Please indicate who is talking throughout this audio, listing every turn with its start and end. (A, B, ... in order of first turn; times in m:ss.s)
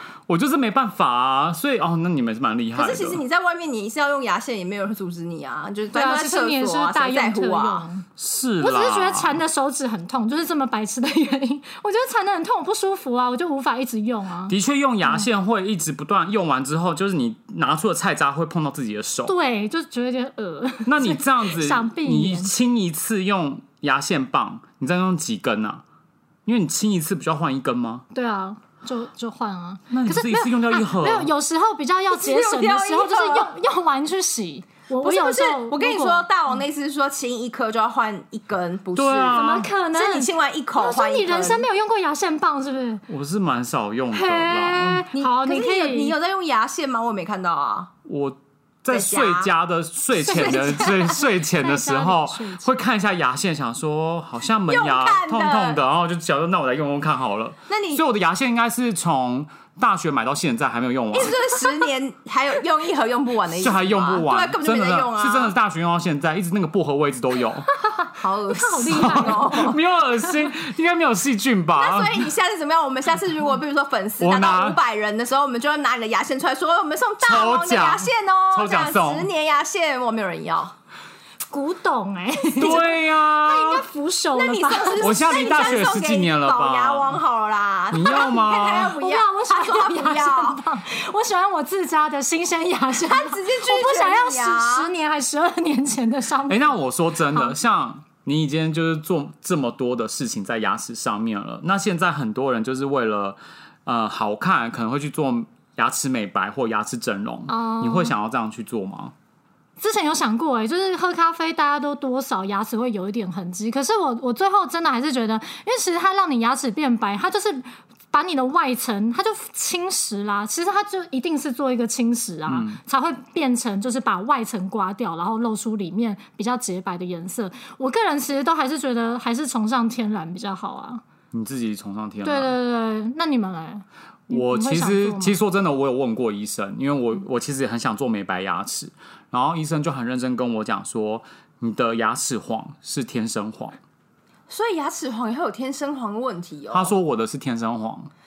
0:00.3-0:03.2 A
0:02.8-0:07.9 B
0:05.9-0:08.1 C
0:08.2-0:09.4 A
0:08.6-0:14.6 C
0:14.5-0:19.3 A
0:19.3-0:22.5 C
0:20.9-0:25.8 A
0:26.5-0:28.0 A
0:28.1-0:36.3 C
0:29.9-0:31.3 A
0:32.1-0:33.5 B
0:35.0-0:41.7 B
0:39.0-0:39.7 A
0:39.3-0:43.0 C
0:43.1-0:45.1 A
0:44.1-0:46.2 C
0:45.1-0:47.9 B
0:48.0-1:01.5 A
0:48.9-0:49.5 B
0:50.2-0:52.7 C
0:50.3-0:51.0 B
0:54.7-0:55.8 B
0:57.7-0:58.0 B
1:01.1-1:05.5 B
1:03.5-1:07.7 A
1:08.1-1:09.8 B
1:08.5-1:09.7 C
1:08.9-1:12.3 A
1:11.8-1:20.7 B
1:14.2-1:14.8 A
1:17.2-1:19.3 A
1:21.5-1:25.8 C
1:22.6-1:23.9 A
1:24.4-1:30.6 B
1:25.0-1:27.2 A
1:27.9-1:29.0 A
1:28.1-1:36.8 C
1:33.0-1:34.9 B
1:36.5-1:49.1 A
1:37.3-1:37.6 C
1:47.5-1:48.1 C
1:49.8-2:11.0 C
2:02.5-2:02.8 A
2:11.3-2:12.5 A
2:12.2-2:15.4 C
2:14.3-2:23.8 A
2:24.5-2:26.9 B
2:26.7-2:28.1 A